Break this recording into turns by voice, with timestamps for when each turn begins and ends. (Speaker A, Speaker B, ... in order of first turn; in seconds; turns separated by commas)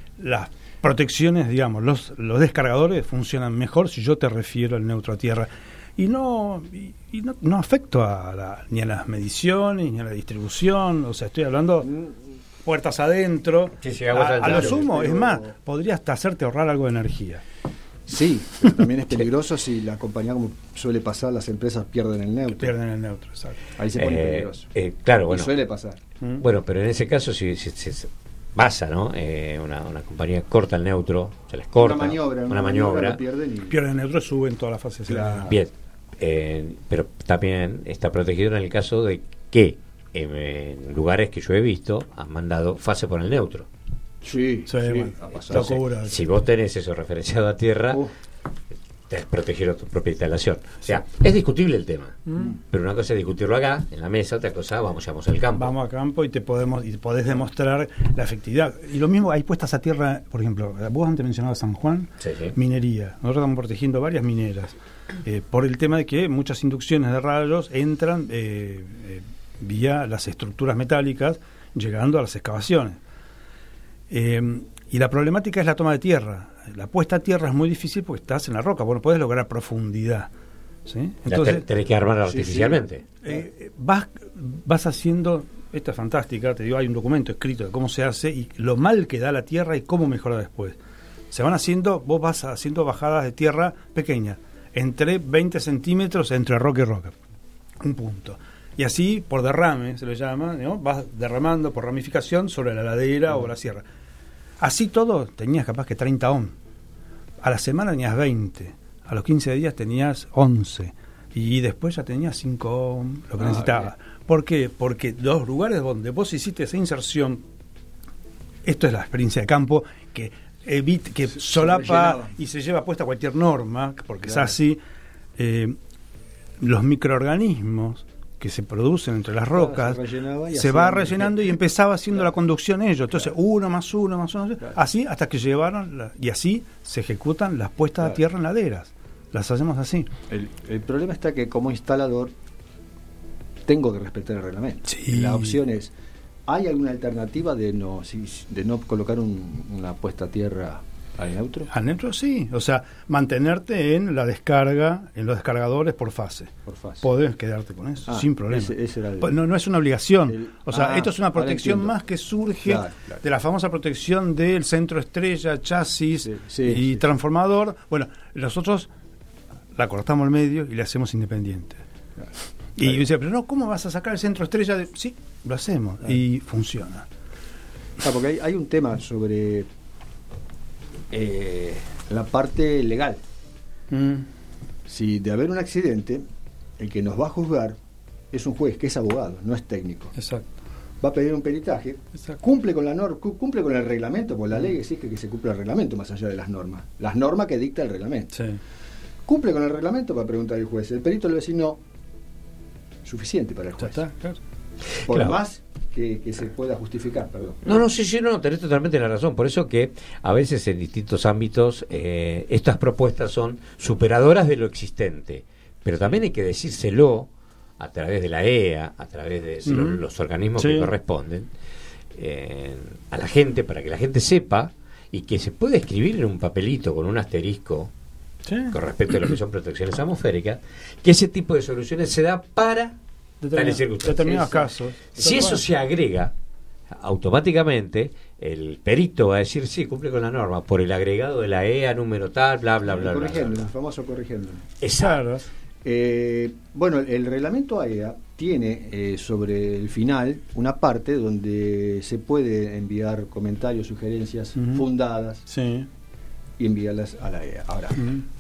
Speaker A: 0.2-11.9, Speaker B: 11.9-12.2, Speaker A: 12.6-17.4, Speaker C: 13.8-14.9, Speaker B: 14.4-15.5, Speaker B: 18.1-22.7, Speaker A: 22.5-23.6, Speaker B: 23.8-24.7, Speaker C: 23.9-25.5, Speaker B: 25.3-26.0, Speaker C: 26.4-33.2, Speaker B: 31.8-33.8, Speaker A: 33.7-35.5, Speaker B: 35.1-35.6, Speaker C: 35.4-43.7, Speaker B: 44.2-45.8, Speaker A: 44.7-46.2, Speaker C: 45.5-48.0, Speaker C: 49.1-55.7, Speaker A: 52.3-52.5, Speaker A: 55.6-73.0, Speaker C: 62.2-62.5, Speaker A: 74.1-80.3, Speaker A: 80.9-81.7, Speaker C: 81.3-83.0, Speaker B: 82.2-82.8, Speaker A: 83.2-90.8, Speaker A: 91.3-97.2, Speaker A: 97.8-103.8, Speaker A: 104.6-106.5, Speaker A: 107.4-117.4, Speaker B: 113.4-113.9, Speaker A: 118.6-124.8, Speaker B: 121.4-122.3, Speaker B: 124.3-124.6, Speaker A: 125.4-125.8, Speaker A: 126.6-130.0, Speaker B: 129.5-131.6, Speaker A: 130.5-140.1, Speaker B: 140.3-142.3, Speaker B: 143.7-145.9, Speaker A: 144.9-145.6, Speaker B: 146.5-151.7, Speaker A: 151.7-168.9, Speaker B: 156.7-157.1, Speaker B: 158.1-159.4, Speaker B: 160.3-162.0, Speaker B: 162.6-163.2, Speaker B: 166.2-167.1, Speaker A: 169.8-171.8, Speaker B: 172.2-173.0, Speaker A: 172.8-177.1, Speaker B: 178.0-179.7, Speaker B: 181.1-183.2, Speaker A: 183.9-184.3, Speaker B: 184.9-186.2, Speaker B: 186.8-187.8, Speaker B: 188.3-190.1, Speaker A: 190.2-190.5, Speaker B: 191.0-198.3, Speaker A: 198.3-198.6, Speaker B: 199.3-201.8, Speaker B: 203.0-204.0, Speaker A: 203.8-204.4, Speaker B: 205.1-207.7, Speaker C: 205.1-205.4, Speaker C: 207.6-221.5, Speaker A: 219.7-220.0, Speaker A: 220.6-220.9, Speaker C: 222.2-227.9, Speaker A: 228.4-228.7, Speaker C: 228.7-233.0, Speaker A: 233.4-235.6, Speaker C: 233.5-236.3, Speaker C: 237.0-243.7, Speaker B: 242.8-244.8, Speaker C: 244.8-245.2, Speaker A: 245.0-245.5, Speaker B: 245.8-255.5, Speaker A: 254.6-254.8, Speaker A: 255.5-255.9, Speaker B: 256.6-258.1